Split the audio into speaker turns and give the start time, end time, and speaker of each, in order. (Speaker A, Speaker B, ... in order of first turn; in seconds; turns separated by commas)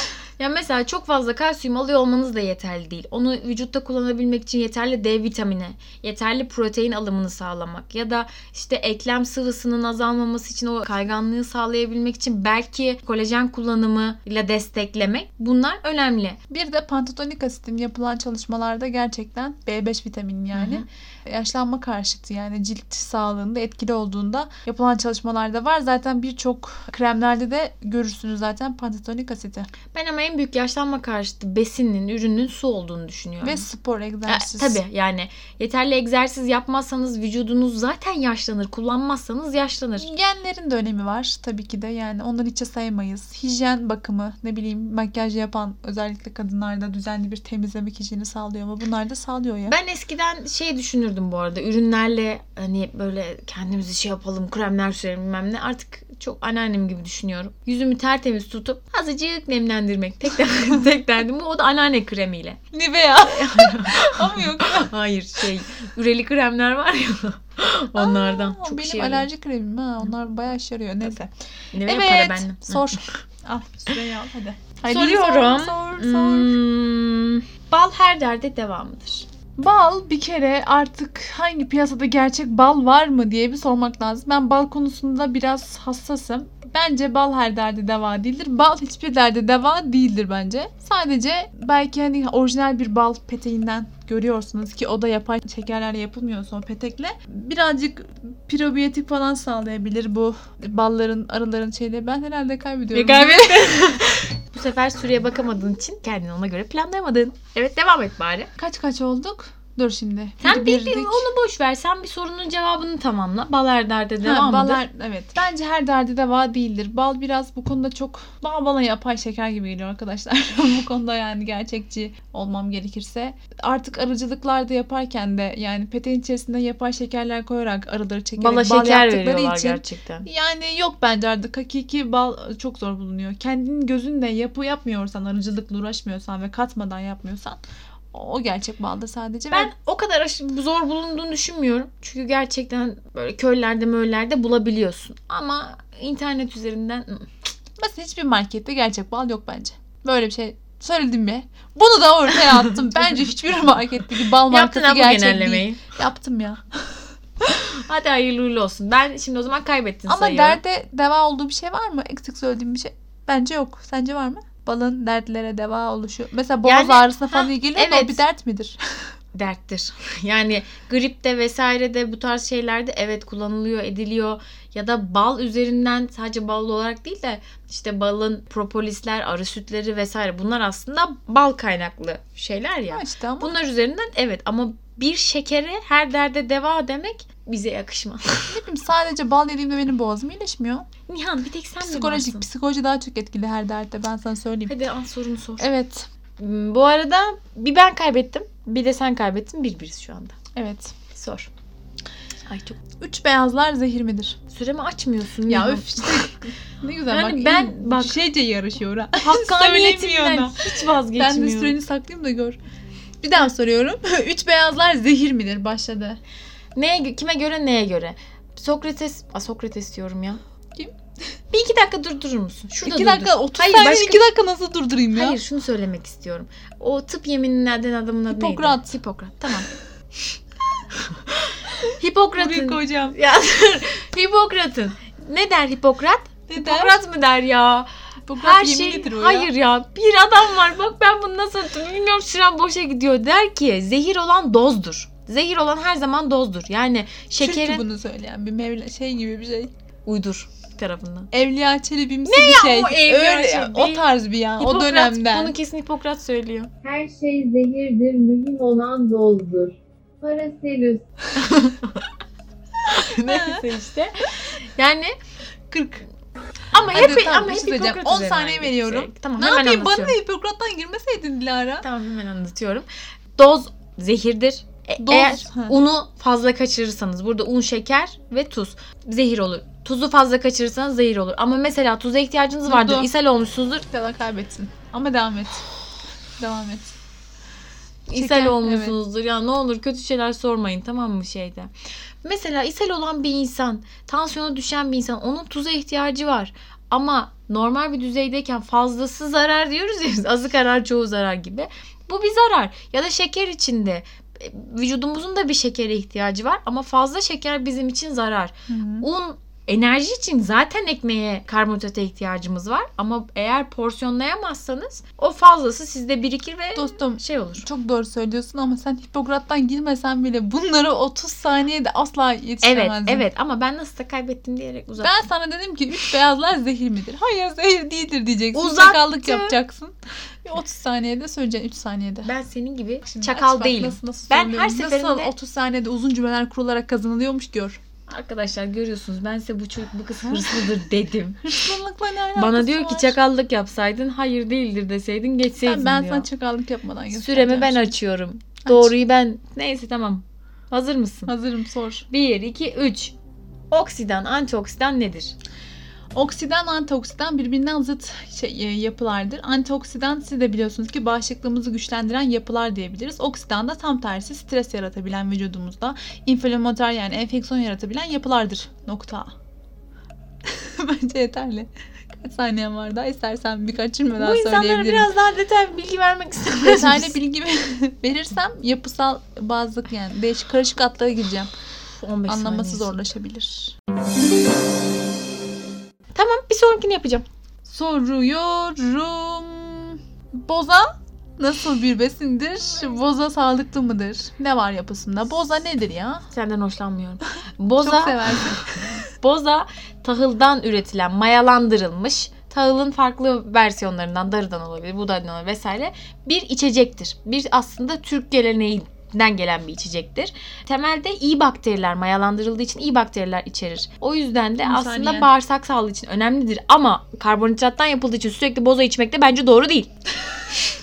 Speaker A: 0.4-16.4, Speaker B: 16.5-29.7, Speaker A: 20.5-20.8, Speaker A: 29.9-33.7, Speaker B: 33.4-34.8, Speaker A: 34.3-40.1, Speaker B: 40.0-49.8, Speaker A: 49.7-62.6, Speaker B: 62.7-64.9, Speaker A: 63.1-69.3, Speaker B: 68.0-71.3, Speaker A: 71.7-73.0, Speaker B: 71.8-76.5, Speaker A: 74.9-79.3, Speaker B: 79.6-103.8, Speaker A: 102.9-108.5, Speaker B: 108.6-111.3, Speaker A: 110.4-114.8, Speaker B: 114.2-137.6, Speaker A: 128.4-130.3, Speaker B: 138.1-139.7, Speaker A: 139.5-147.3, Speaker B: 147.8-156.6, Speaker A: 154.4-155.8, Speaker A: 157.4-160.6, Speaker B: 160.1-168.8, Speaker A: 166.6-168.2, Speaker A: 169.3-188.6, Speaker B: 182.9-183.6, Speaker B: 188.5-190.9, Speaker A: 191.1-192.4, Speaker B: 191.8-194.7, Speaker A: 194.7-195.7, Speaker B: 195.6-196.1, Speaker A: 196.4-200.3, Speaker B: 200.5-201.0, Speaker A: 201.1-201.5, Speaker A: 202.5-202.8, Speaker B: 203.0-204.4, Speaker A: 204.5-206.3, Speaker B: 205.5-212.6, Speaker A: 207.1-208.2, Speaker A: 209.2-211.8, Speaker B: 213.2-216.2, Speaker A: 216.8-220.4, Speaker A: 221.5-224.3, Speaker B: 222.8-225.4, Speaker A: 225.1-229.7, Speaker B: 228.3-228.9, Speaker A: 231.1-237.9, Speaker B: 232.4-233.2, Speaker B: 236.5-237.0, Speaker B: 238.3-239.5, Speaker A: 238.4-247.8, Speaker B: 247.4-249.7, Speaker A: 250.1-251.3, Speaker B: 251.3-255.6, Speaker A: 252.2-254.1, Speaker A: 254.6-256.7, Speaker C: 256.8-261.0, Speaker A: 261.4-261.9, Speaker A: 262.9-265.1, Speaker B: 263.2-263.6, Speaker B: 265.7-266.1, Speaker A: 266.7-270.2, Speaker B: 266.9-271.9, Speaker A: 271.8-272.9, Speaker A: 273.4-283.9, Speaker B: 275.0-275.8, Speaker B: 282.6-283.1, Speaker B: 283.8-285.7, Speaker B: 286.4-287.0, Speaker A: 288.1-291.7, Speaker B: 288.1-289.0, Speaker A: 292.2-317.6, Speaker B: 308.7-309.1, Speaker B: 316.8-323.3, Speaker A: 322.6-325.2, Speaker B: 325.0-332.3, Speaker A: 328.5-329.6, Speaker A: 332.2-335.3, Speaker B: 333.0-337.8, Speaker A: 338.1-341.7, Speaker B: 340.2-340.7, Speaker B: 341.4-343.2, Speaker A: 342.4-346.3, Speaker B: 345.6-348.0, Speaker A: 347.1-351.3, Speaker B: 348.6-348.9, Speaker B: 351.3-352.1, Speaker A: 352.1-353.1, Speaker A: 353.7-355.3, Speaker B: 356.1-369.3, Speaker B: 370.5-375.1, Speaker A: 374.2-377.2, Speaker B: 376.6-381.5, Speaker A: 382.0-383.0, Speaker B: 382.3-383.8, Speaker A: 386.1-387.2, Speaker B: 387.6-396.3, Speaker A: 396.3-398.5, Speaker B: 397.8-398.8, Speaker A: 399.2-419.9, Speaker B: 414.6-415.3